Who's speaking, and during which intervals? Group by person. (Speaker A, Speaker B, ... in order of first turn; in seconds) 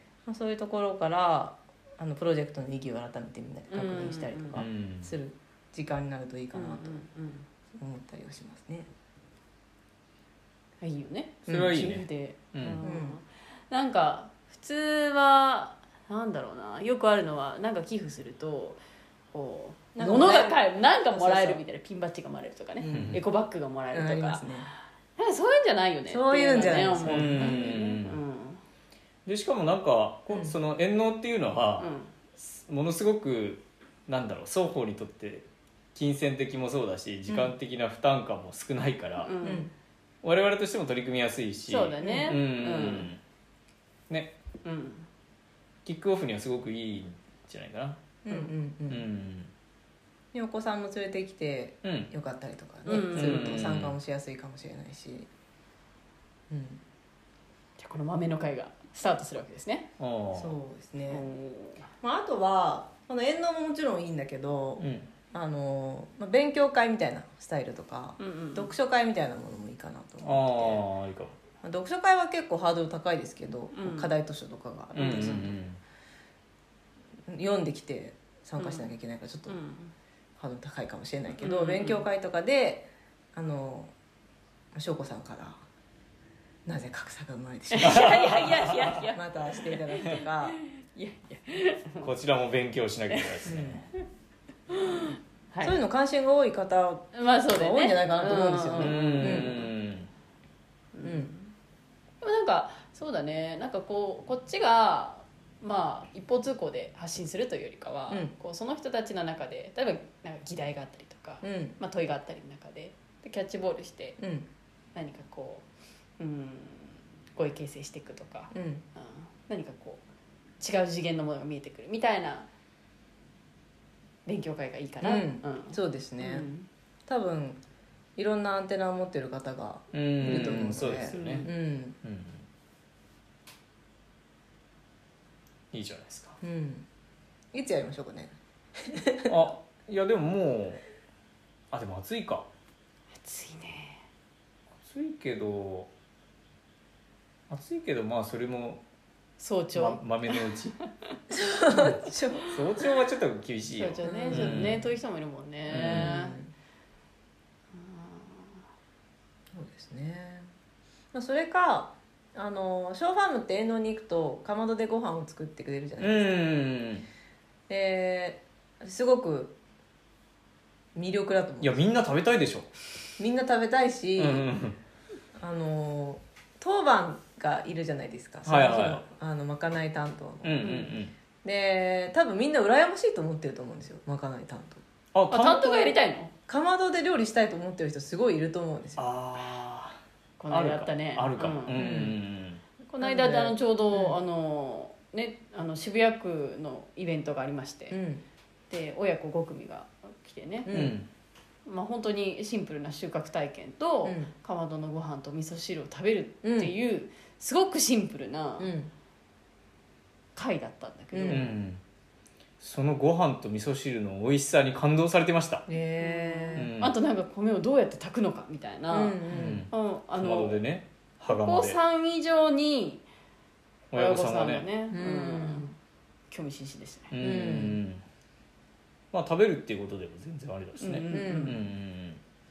Speaker A: 0.2-7.0, 7.7-8.9, 11.5-11.8, 12.8-13.2, 19.9-20.6, 21.1-21.6, 22.8-23.2, 23.9-24.7, 26.1-27.7, 39.4-39.7, 42.0-42.3, 48.2-49.1, 50.3-55.3, 56.5-56.8, 60.3-61.2, 62.0-70.8, 71.6-75.6, 77.3-79.6, 80.4-83.9, 84.7-85.6, 86.7-90.6, 93.4-93.8, 95.6-99.7, 101.0-101.3, 111.4-111.8, 114.2-114.5, 118.5-118.8, 125.0-126.5, 127.1-127.6, 128.2-132.0, 136.4-136.9, 137.5-139.5, 151.3-152.5, 154.0-154.7, 155.7-156.5, 159.5-160.5, 161.1-166.4, 167.7-169.6, 170.9-171.9, 173.2-174.5, 175.3-184.8, 186.5-189.0, 191.7-192.2, 193.0-194.2, 197.9-198.2, 200.7-201.0, 204.0-204.3, 206.4-206.7, 208.6-208.9, 211.1-211.5, 215.7-216.7, 218.9-219.7, 224.9-225.8, 227.2-227.8, 231.1-231.6
Speaker B: 3.7-4.6, 6.5-7.5, 10.8-18.8, 19.3-24.5, 25.2-28.6, 31.8-32.1, 39.2-39.7, 41.7-43.1, 44.6-45.1, 52.9-53.6, 57.8-59.9, 61.1-61.9, 68.2-68.7, 73.7-74.1, 75.0-75.3, 78.6-78.9, 79.5-79.9, 81.4-82.0, 87.7-92.1, 94.7-95.8, 97.1-99.7, 100.9-101.5, 102.2-114.2, 114.9-115.7, 116.2-120.0, 120.6-122.5, 124.2-126.7, 131.1-131.5, 143.2-144.0, 149.4-150.5, 153.8-156.4, 157.7-158.6, 180.6-180.9, 185.3-186.3, 190.4-191.8, 192.9-198.0, 198.7-200.7, 201.7-208.7, 210.3-211.5, 216.0-220.6, 221.3-223.0, 223.9-225.7, 226.3-227.1, 230.8-231.6
Speaker C: 4.5-5.1, 11.5-12.8, 22.9-23.2, 27.1-28.2, 29.2-39.3, 40.2-43.2, 44.1-44.3, 45.8-48.0, 48.9-49.5, 51.8-52.1, 53.0-53.9, 60.0-60.5, 64.8-65.1, 70.2-71.3, 74.9-75.8, 87.8-89.0, 92.0-93.8, 98.8-100.1, 129.9-131.5, 132.0-132.4, 135.7-136.4, 139.3-140.8, 141.7-142.5, 144.8-145.9, 147.5-148.8, 149.7-150.8, 151.7-154.9, 155.7-156.2, 166.0-167.1, 171.6-172.7, 174.2-174.8, 178.4-179.0, 180.4-181.1, 185.1-185.9, 189.0-190.0, 190.5-192.6, 200.7-201.1, 211.3-211.8, 212.6-215.7, 216.5-216.9, 219.3-221.8, 223.9-224.7, 227.1-228.0, 229.1-232.2